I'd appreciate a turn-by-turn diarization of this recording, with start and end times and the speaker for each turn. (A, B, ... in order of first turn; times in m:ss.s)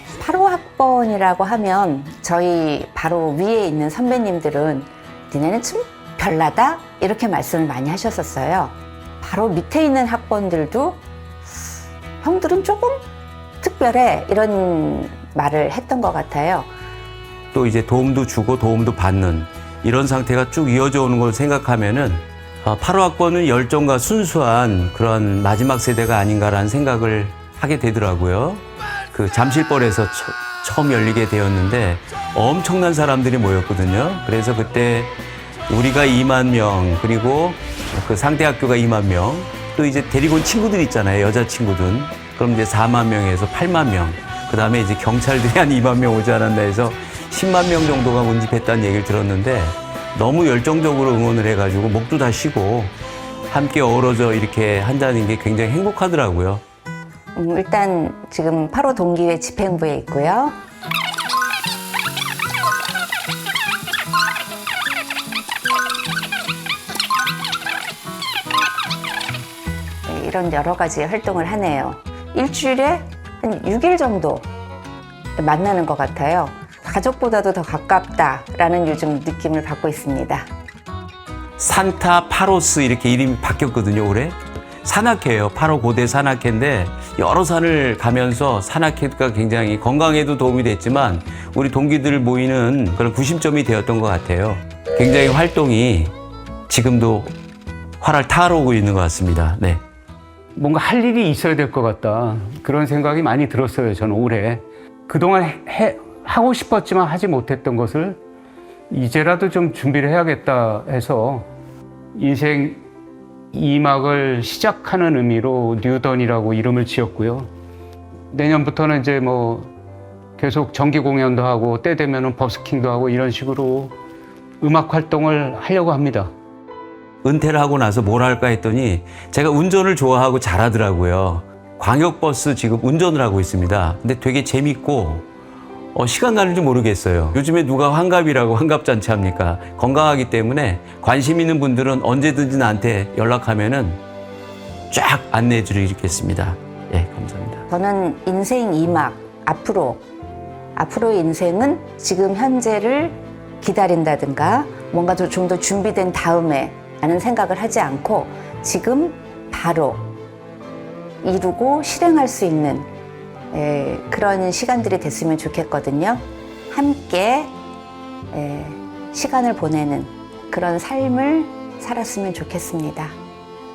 0:00.2-0:11.0 A
0:12.2-0:13.0 A
0:13.6-0:16.7 A
0:17.5-0:35.2 B
0:35.7-0:53.0 B
0:53.5-0:56.6 B
0:57.3-1:00.5 A
1:10.0-1:14.5 A
1:15.4-1:20.4 A
1:21.6-1:36.1 B
1:36.7-1:37.3 B
1:38.0-1:39.8 B
1:40.5-1:48.2 C
1:48.9-1:51.5 C
1:52.1-1:52.8 C
1:53.5-1:57.5 C
1:58.3-1:59.7 C
2:00.4-2:04.0 C
2:04.6-2:06.3 C
2:07.2-2:15.3 B
2:15.9-2:24.0 B
2:24.9-2:27.6 B
2:27.7-2:30.0 A
2:30.8-2:40.0 A
2:41.2-2:42.9 A
2:43.5-2:47.5 A
2:48.3-2:53.1 A